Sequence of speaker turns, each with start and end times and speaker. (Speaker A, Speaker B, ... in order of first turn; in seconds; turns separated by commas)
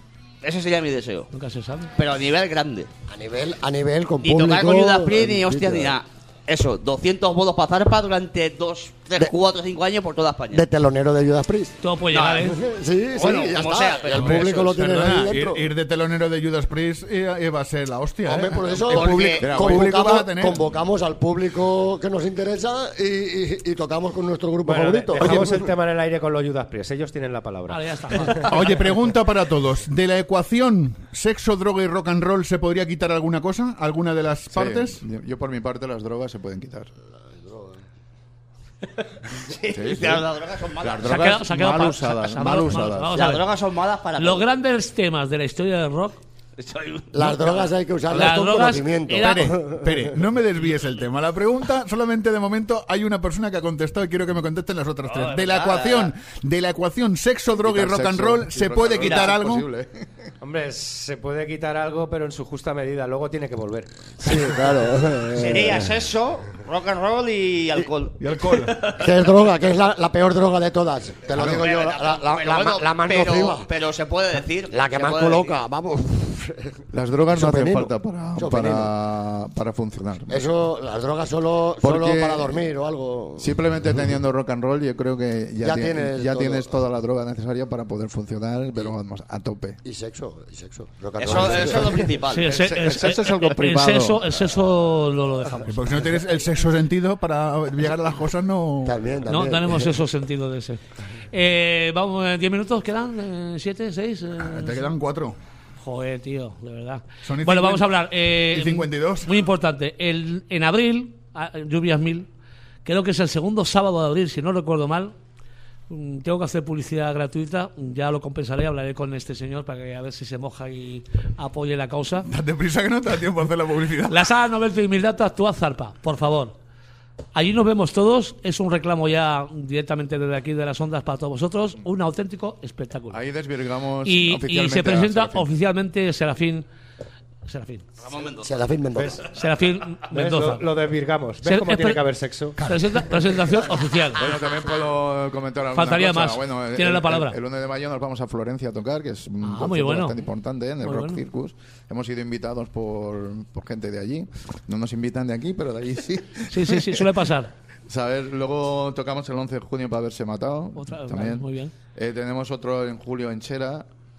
Speaker A: 0.4-1.3, Speaker B: 1.3-1.9, Speaker A: 2.0-2.9, Speaker C: 3.1-6.0, Speaker A: 4.2-10.7, Speaker C: 10.5-11.8, Speaker B: 11.8-12.6, Speaker A: 12.1-12.5, Speaker C: 12.5-15.7, Speaker A: 13.1-14.9, Speaker D: 14.4-20.7, Speaker C: 18.2-25.6, Speaker A: 18.7-19.7, Speaker E: 19.4-19.9, Speaker F: 24.6-28.5, Speaker D: 25.2-25.6, Speaker B: 27.7-28.7, Speaker D: 28.4-35.0, Speaker E: 34.5-36.9, Speaker C: 37.4-37.8, Speaker A: 39.5-41.4, Speaker E: 39.7-40.3, Speaker E: 40.8-43.3, Speaker B: 41.1-43.5, Speaker A: 43.1-44.5, Speaker B: 44.2-46.2, Speaker A: 46.6-48.3, Speaker C: 47.1-49.9, Speaker B: 48.1-49.5, Speaker D: 49.1-59.7, Speaker A: 55.0-56.1, Speaker E: 57.6-60.3, Speaker A: 59.0-59.3, Speaker F: 60.4-64.5, Speaker C: 64.2-66.0, Speaker A: 65.4-69.1, Speaker D: 68.2-68.8, Speaker C: 69.0-73.8, Speaker E: 71.3-71.7, Speaker A: 71.4-75.5, Speaker C: 74.4-78.9, Speaker E: 76.9-80.5, Speaker C: 80.3-83.6, Speaker E: 81.8-82.7, Speaker E: 83.4-89.8, Speaker C: 85.6-86.7, Speaker C: 89.8-92.2, Speaker A: 91.2-93.2, Speaker E: 91.3-91.9, Speaker B: 92.3-96.1, Speaker E: 92.5-94.3, Speaker D: 95.7-99.0, Speaker C: 98.8-100.0, Speaker B: 99.3-104.9, Speaker D: 104.4-105.4, Speaker B: 105.8-112.3, Speaker D: 107.2-107.9, Speaker D: 108.5-109.3, Speaker B: 112.8-115.1, Speaker B: 115.9-122.3, Speaker D: 122.3-124.3, Speaker B: 124.1-126.5, Speaker B: 127.3-133.2, Speaker E: 133.1-135.5, Speaker B: 134.1-136.7, Speaker B: 137.4-137.9, Speaker A: 138.0-139.3, Speaker C: 138.4-139.2, Speaker B: 139.3-140.7, Speaker F: 140.1-142.6, Speaker B: 141.4-142.0, Speaker B: 142.6-144.2, Speaker D: 142.6-143.1, Speaker E: 144.2-157.1, Speaker B: 145.8-147.4, Speaker B: 149.4-150.2, Speaker B: 150.8-151.2, Speaker B: 156.5-157.5, Speaker E: 157.9-163.9, Speaker B: 160.8-161.7